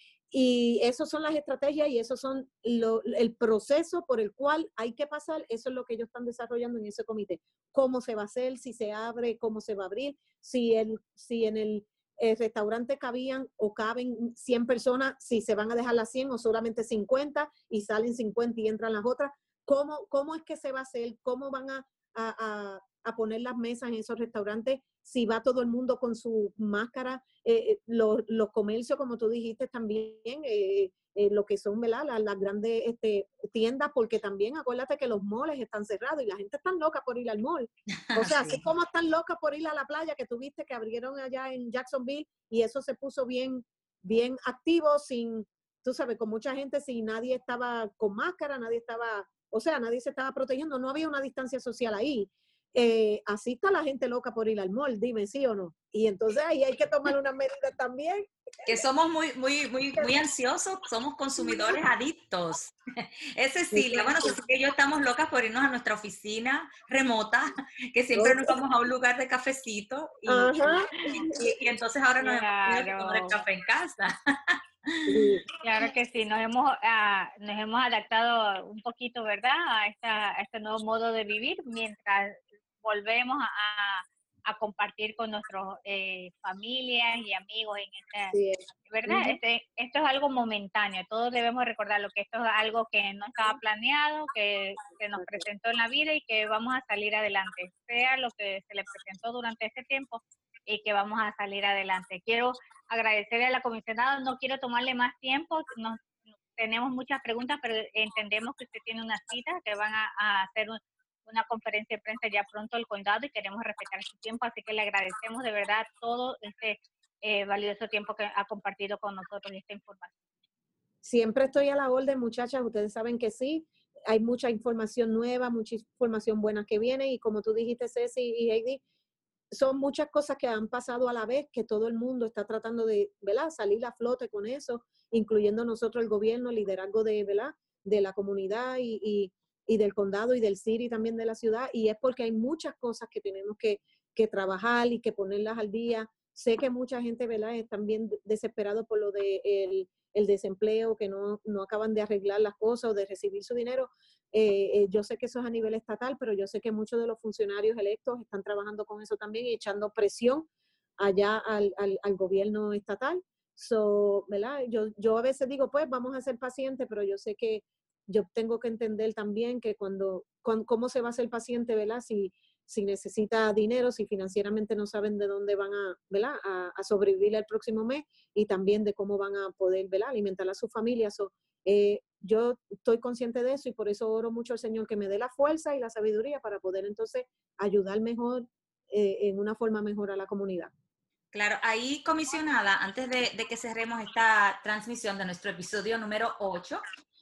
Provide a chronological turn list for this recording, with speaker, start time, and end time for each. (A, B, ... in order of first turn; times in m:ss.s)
0:00.3-0:58.3 A
0:38.1-0:38.6 B
0:58.7-1:15.1 B
1:01.4-1:01.8 A
1:03.7-1:04.4 A
1:08.2-1:08.6 A
1:10.3-1:11.4 A
1:12.2-1:13.4 C
1:15.1-1:15.5 A
1:15.6-1:28.4 C
1:28.3-1:29.4 A
1:28.9-1:46.0 C
1:35.2-1:35.5 A
1:46.6-2:00.1 C
2:01.0-2:08.8 A
2:09.5-2:40.5 A
2:41.0-3:10.7 A
3:11.3-3:16.8 B